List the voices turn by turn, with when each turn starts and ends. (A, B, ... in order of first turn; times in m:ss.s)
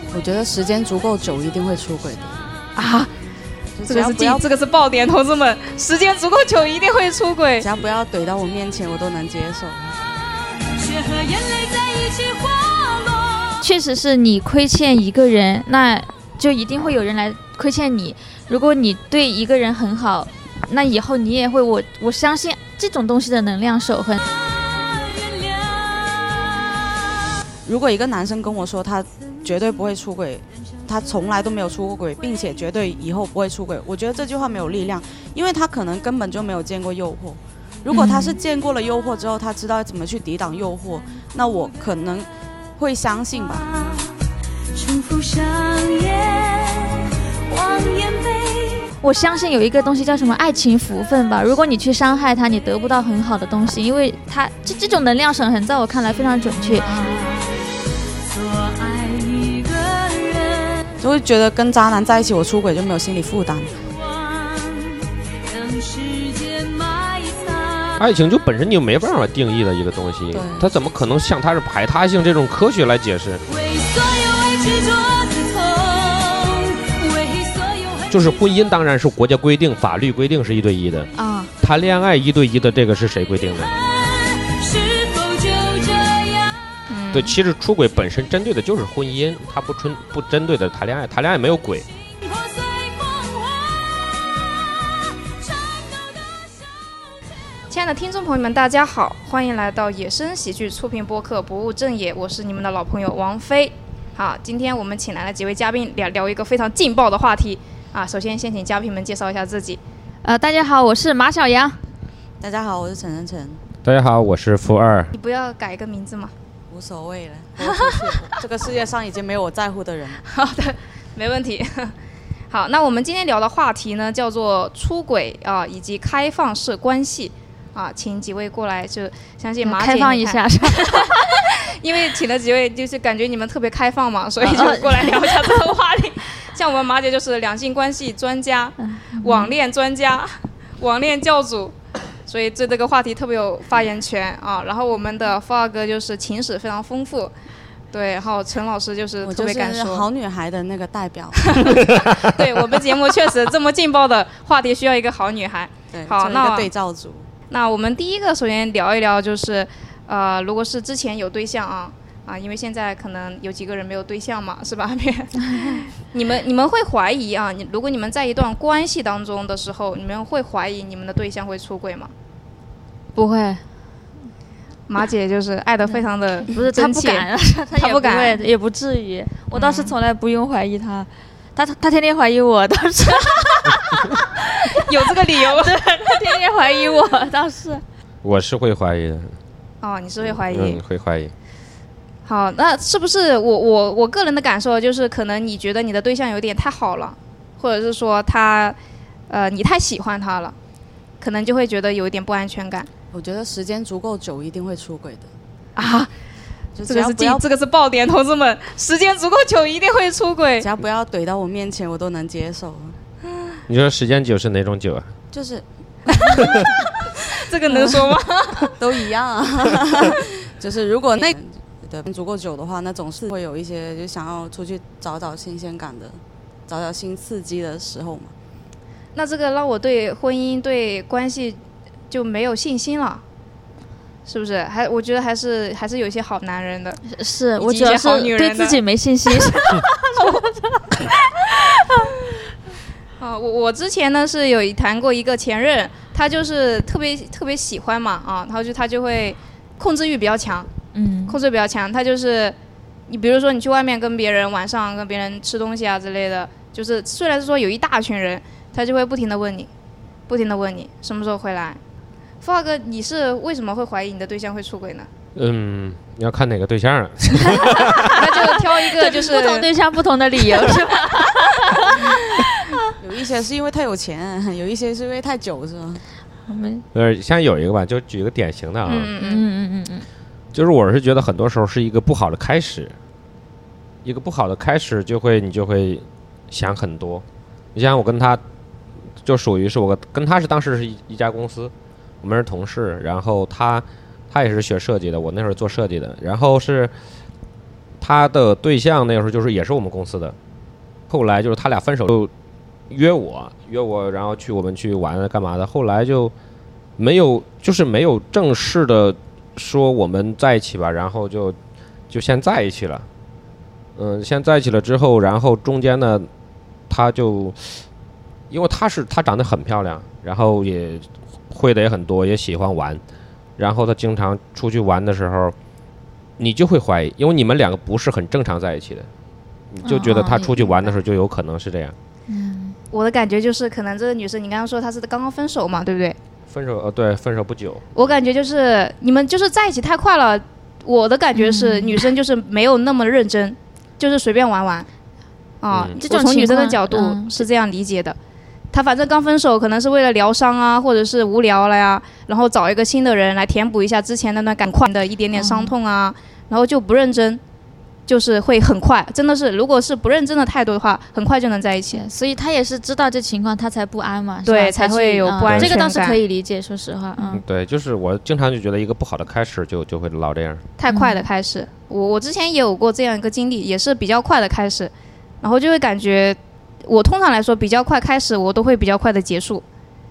0:00.1-0:02.4 A
0:02.8-0:03.1 B
0:03.8-0:04.4 A
0:03.9-0:07.7 B
0:07.6-0:10.0 A
0:10.6-0:13.7 C
0:13.6-0:24.2 D
0:24.2-0:27.3 C
0:27.6-0:42.3 A
0:37.9-0:38.4 D
0:42.8-0:43.7 A
0:43.5-0:48.9 C
0:49.0-0:56.9 D
0:56.8-0:57.6 C
0:58.2-1:01.0 C
1:01.0-1:03.8 A
1:03.8-1:08.1 C
1:08.0-1:13.4 E
1:10.3-1:10.7 A
1:13.5-1:18.6 C
1:18.1-1:23.7 E
1:21.2-1:21.5 D
1:23.6-1:26.5 C
1:26.9-1:27.4 B
1:27.1-1:31.9 E
1:32.2-1:37.0 C
1:37.7-1:49.8 B
1:50.2-1:51.8 D
1:52.4-1:53.6 A
1:53.8-1:55.1 E
1:55.1-1:56.3 B
1:56.7-2:00.2 A
1:57.6-1:58.4 B
2:00.3-2:01.9 B
2:02.5-2:21.8 B
2:09.6-2:11.4 D
2:14.4-2:15.4 D
2:18.8-2:19.5 D
2:22.3-2:27.3 B
2:27.9-2:30.1 B
2:29.2-2:32.0 A
2:31.4-2:36.7 B
2:35.9-2:37.3 A
2:37.5-2:52.1 B
2:53.2-2:53.6 D
2:54.9-2:58.4 B
2:55.9-3:07.8 D
2:59.5-2:59.9 B
3:04.7-3:06.3 B
3:08.2-3:09.4 E
3:09.8-3:10.8 B
3:10.2-3:11.3 E
3:12.3-3:18.8 B
3:19.3-3:20.6 B
3:21.2-3:22.9 B
3:23.1-3:25.3 A
3:25.8-3:26.1 B
3:26.8-3:27.4 A
3:26.9-3:30.7 B
3:30.6-3:33.0 A
3:33.7-3:35.1 E
3:35.3-3:36.6 A
3:36.2-3:36.6 B
3:36.3-3:36.7 E
3:37.2-3:38.8 B
3:37.8-3:38.1 A
3:38.8-3:48.3 A
3:49.2-3:51.6 B
3:52.1-3:53.2 B
3:54.3-3:57.0 B
3:57.1-4:00.8 D
3:57.6-3:58.8 B
4:00.2-4:00.4 B
4:03.2-4:10.7 B
4:10.9-4:11.4 D
4:11.3-4:12.6 B
4:13.1-4:19.7 B
4:20.3-4:21.8 B
4:22.4-4:25.1 B
4:25.4-4:28.1 E
4:27.8-4:32.5 D
4:28.0-4:29.7 B
4:30.4-4:30.8 B
4:31.8-4:32.1 B
4:33.0-4:36.0 A
4:36.5-4:36.8 D
4:36.9-4:39.1 E
4:38.8-4:39.4 B
4:39.2-4:40.1 D
4:40.5-4:43.0 E
4:44.0-4:47.2 E
4:47.8-4:48.4 E
4:49.2-4:56.9 E
4:58.0-5:00.4 E
5:01.1-5:02.3 E
5:02.9-5:06.3 E
5:07.0-5:11.6 E
5:12.1-5:13.1 E
5:14.0-5:16.3 E
5:16.9-5:17.8 E
5:18.5-5:23.0 E
5:23.6-5:25.6 E
5:26.4-5:29.1 E
5:29.7-5:32.0 E
5:29.8-5:31.0 D
5:32.3-5:32.8 D
5:32.9-5:36.2 B
5:36.5-5:37.9 E
5:38.0-5:44.9 B
5:41.4-5:42.1 D
5:45.6-5:48.2 B
5:45.7-5:46.0 E
5:46.0-5:47.4 D
5:48.7-5:57.4 B
5:55.4-5:55.7 D
5:58.1-6:02.0 B
6:01.9-6:07.4 D
6:04.5-6:06.2 B
6:05.5-6:05.7 E
6:07.3-6:10.6 E
6:10.8-6:14.9 B
6:10.9-6:11.3 D
6:15.4-6:19.6 B